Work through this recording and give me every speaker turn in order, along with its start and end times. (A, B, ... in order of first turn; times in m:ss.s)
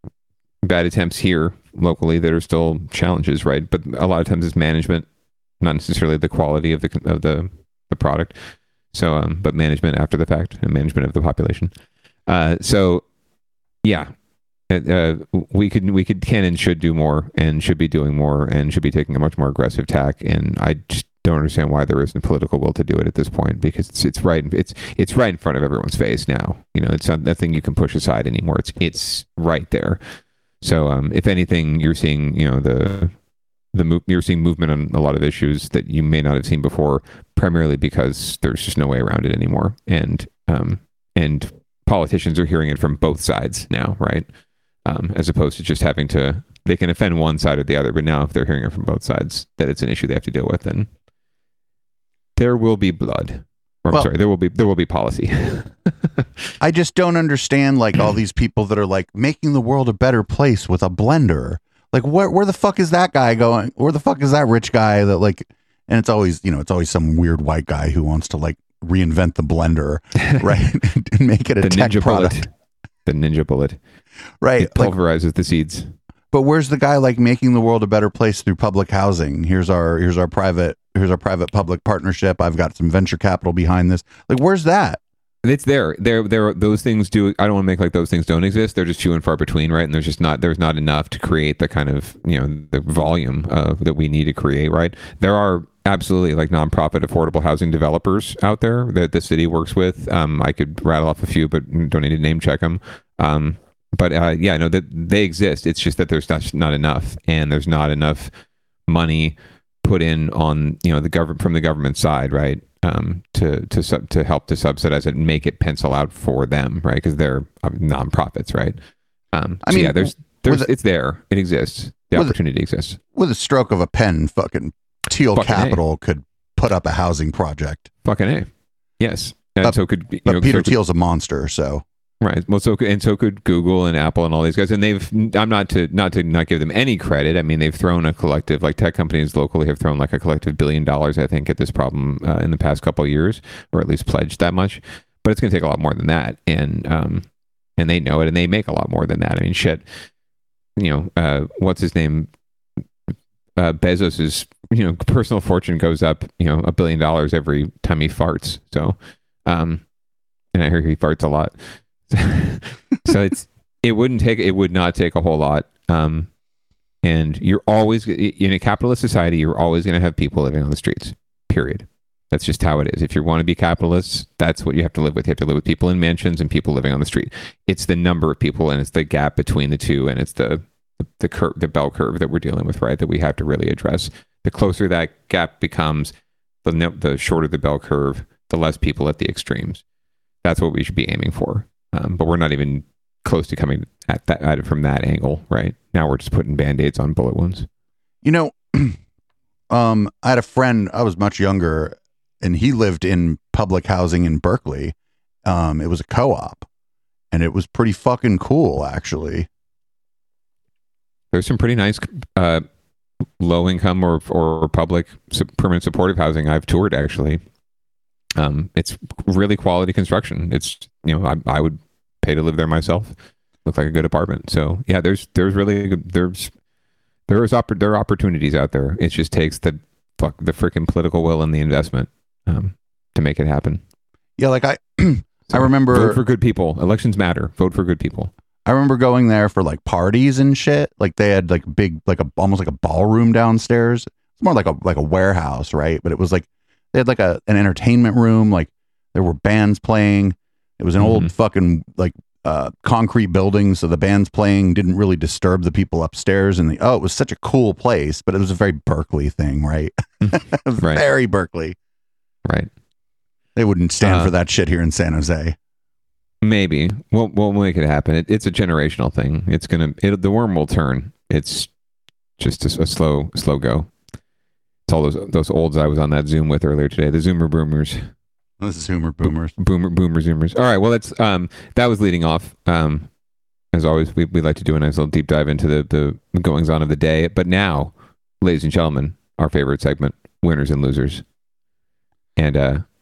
0:00.6-0:05.1 A
0:05.6-0:08.4 A
0:08.9-0:11.7 A
0:12.3-0:13.0 A
0:13.8-0:14.1 A
0:14.7-0:30.0 A
0:30.6-0:33.1 A
0:33.7-0:44.3 A
0:44.8-0:50.9 A
0:52.4-0:55.7 A
0:56.6-1:12.4 B
1:11.6-1:12.5 A
1:13.0-1:13.8 A
1:14.4-1:14.9 B
1:14.6-1:15.9 A
1:16.3-1:25.0 B
1:25.4-1:48.3 A
1:48.9-1:58.8 A
1:59.3-2:03.0 A
1:59.6-2:00.7 B
2:03.1-2:07.9 B
2:05.3-2:05.8 A
2:08.0-2:08.5 A
2:09.0-2:10.7 A
2:09.6-2:11.8 B
2:12.2-2:29.8 A
2:30.8-2:32.3 A
2:33.6-2:39.8 A
2:40.5-2:46.3 A
2:47.0-3:09.8 A
3:10.4-3:17.7 A
3:18.2-3:19.0 B
3:19.7-3:24.9 B
3:25.4-3:26.6 B
3:27.3-3:29.5 B
3:31.3-3:32.6 A
3:33.4-3:37.4 A
3:38.4-3:46.5 A
3:47.3-3:53.8 A
3:54.4-3:56.2 B
3:55.5-3:58.3 A
3:58.6-4:21.8 B
4:11.0-4:11.3 A
4:20.2-4:21.0 A
4:23.6-4:25.6 B
4:24.0-4:24.3 A
4:26.4-4:31.7 A
4:32.4-4:33.9 A
4:34.9-4:38.1 A
4:38.6-4:39.5 B
4:39.2-4:43.1 A
4:43.7-4:51.2 A
4:52.4-4:52.8 A